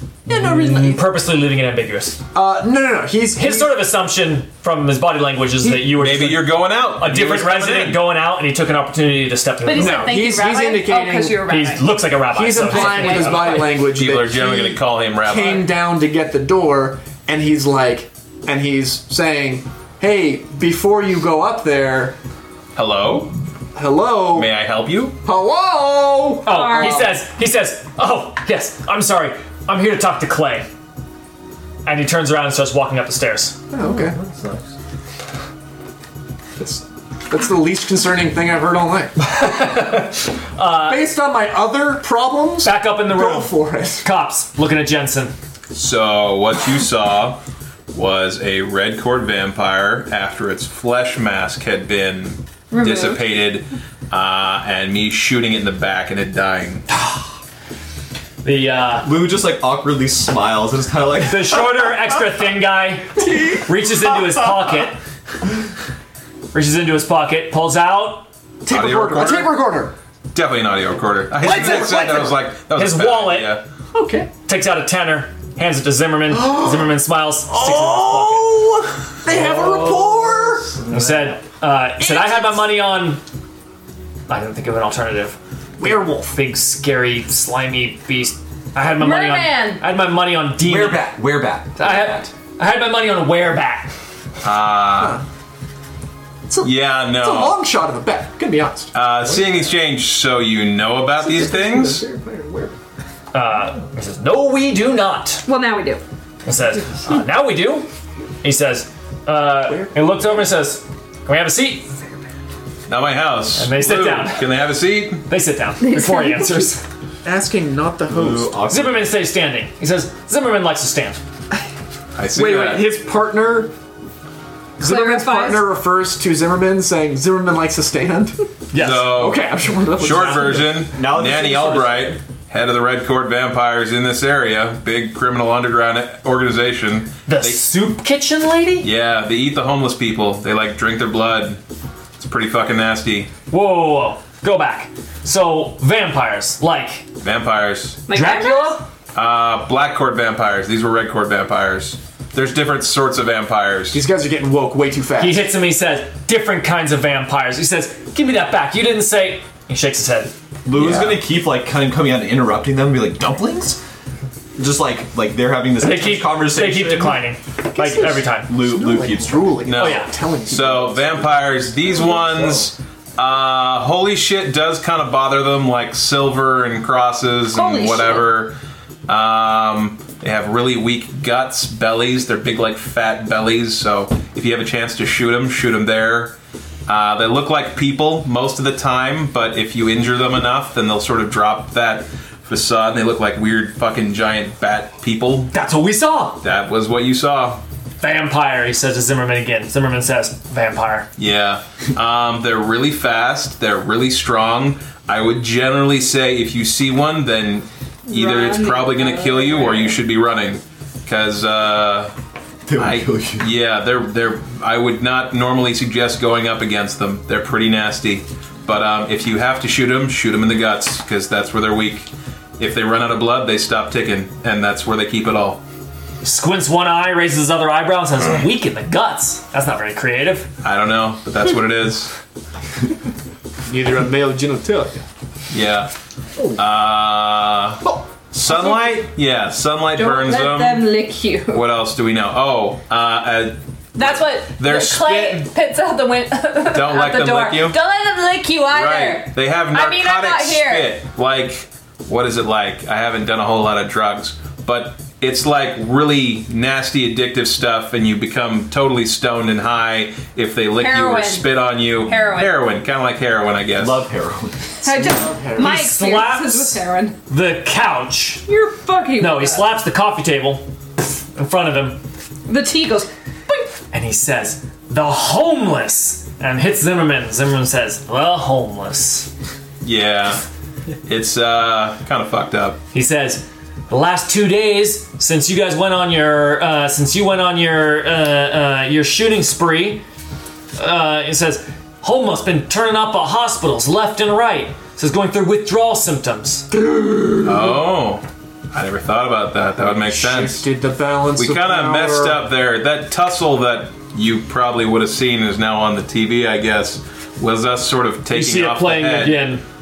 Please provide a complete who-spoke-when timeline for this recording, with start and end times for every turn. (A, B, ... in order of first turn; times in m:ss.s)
0:00.3-0:02.2 A
0:00.3-0:01.0 B
0:02.3-0:03.8 B
0:03.4-0:10.1 A
0:05.8-0:08.0 C
0:09.6-0:11.8 D
0:09.7-0:11.4 B
0:11.5-0:13.7 A
0:12.3-0:22.2 B
0:12.6-0:13.7 D
0:13.7-0:15.8 C
0:22.8-0:23.3 C
0:23.8-0:24.6 B
0:24.3-0:25.2 C
0:25.2-0:27.2 B
0:26.4-0:30.7 A
0:26.5-0:27.1 D
0:31.8-0:33.6 A
0:33.7-0:34.2 B
0:33.8-0:34.7 E
0:36.6-0:39.3 B
0:39.2-0:41.1 A
0:40.6-0:44.1 B
0:42.6-0:45.3 A
0:45.7-0:47.4 C
0:47.9-0:56.8 C
0:52.7-0:53.2 D
0:56.9-0:57.2 A
0:58.4-0:59.1 A
0:58.9-1:02.0 F
1:01.2-1:05.0 A
1:03.2-1:03.7 B
1:06.5-1:08.3 A
1:08.6-1:10.0 B
1:08.7-1:09.6 C
1:10.3-1:13.6 C
1:11.4-1:12.3 B
1:11.4-1:12.2 A
1:12.7-1:13.6 A
1:13.9-1:14.3 B
1:14.4-1:18.6 A
1:16.3-1:17.0 B
1:17.5-1:20.8 B
1:19.3-1:21.3 E
1:20.9-1:23.2 A
1:22.0-1:22.6 B
1:24.3-1:31.2 A
1:25.8-1:26.4 B
1:29.0-1:29.8 D
1:30.6-1:32.3 F
1:31.8-1:33.9 A
1:34.4-1:35.2 C
1:36.5-1:38.9 B
1:36.6-1:37.6 C
1:38.9-1:42.0 C
1:41.2-1:42.8 B
1:43.3-1:45.5 A
1:45.4-1:46.0 D
1:46.5-1:47.9 A
1:48.4-1:51.9 A
1:49.6-1:50.0 B
1:52.9-1:55.3 C
1:53.6-1:54.5 A
1:55.3-1:56.8 A
1:55.8-1:56.7 D
1:57.2-1:58.6 B
1:58.1-1:59.1 F
1:58.7-2:01.2 A
2:02.2-2:02.9 C
2:02.3-2:03.7 B
2:04.8-2:05.7 D
2:04.8-2:08.5 B
2:08.7-2:09.2 A
2:08.8-2:17.6 C
2:09.1-2:10.9 B
2:10.1-2:10.6 A
2:10.9-2:12.2 F
2:17.3-2:18.9 A
2:18.8-2:21.6 C
2:22.2-2:23.3 C
2:23.5-2:27.1 A
2:27.2-2:28.0 C
2:28.1-2:28.8 D
2:28.1-2:28.9 A
2:29.1-2:34.0 C
2:33.9-2:35.4 B
2:35.2-2:40.3 A
2:40.6-2:43.8 F
2:40.8-2:41.2 C
2:44.6-2:47.3 F
2:45.8-2:48.5 A
2:47.7-2:52.2 B
2:48.5-2:49.6 F
2:49.6-3:06.4 C
2:49.8-2:50.1 A
2:57.6-2:58.3 D
3:06.9-3:15.5 C
3:15.5-3:16.4 A
3:16.4-3:17.6 C
3:18.0-3:21.1 A
3:21.2-3:32.1 C
3:28.1-3:30.0 D
3:32.7-3:33.5 F
3:32.8-3:45.6 C
3:46.2-3:50.5 A
3:50.6-3:52.1 C
3:53.7-3:55.0 B
3:55.5-3:55.9 C
3:56.6-4:00.9 C
3:58.5-3:58.8 D
4:00.0-4:01.6 D
4:01.5-4:05.5 C
4:04.0-4:10.9 D
4:06.7-4:07.8 C
4:08.7-4:24.0 C
4:20.8-4:22.6 D
4:23.8-4:24.7 F
4:24.8-4:27.2 D
4:24.8-4:25.8 B
4:25.6-4:28.5 A
4:28.5-4:29.7 D
4:29.2-4:30.7 A
4:31.3-4:32.0 A
4:32.5-4:33.7 D
4:33.9-4:39.3 A
4:39.8-4:40.4 C
4:41.1-4:42.8 C
4:42.9-4:50.0 A
4:50.8-4:56.7 A
4:56.7-4:57.8 B
4:57.4-5:00.6 C
4:59.8-5:02.4 B
5:01.4-5:09.5 C
5:08.3-5:09.6 A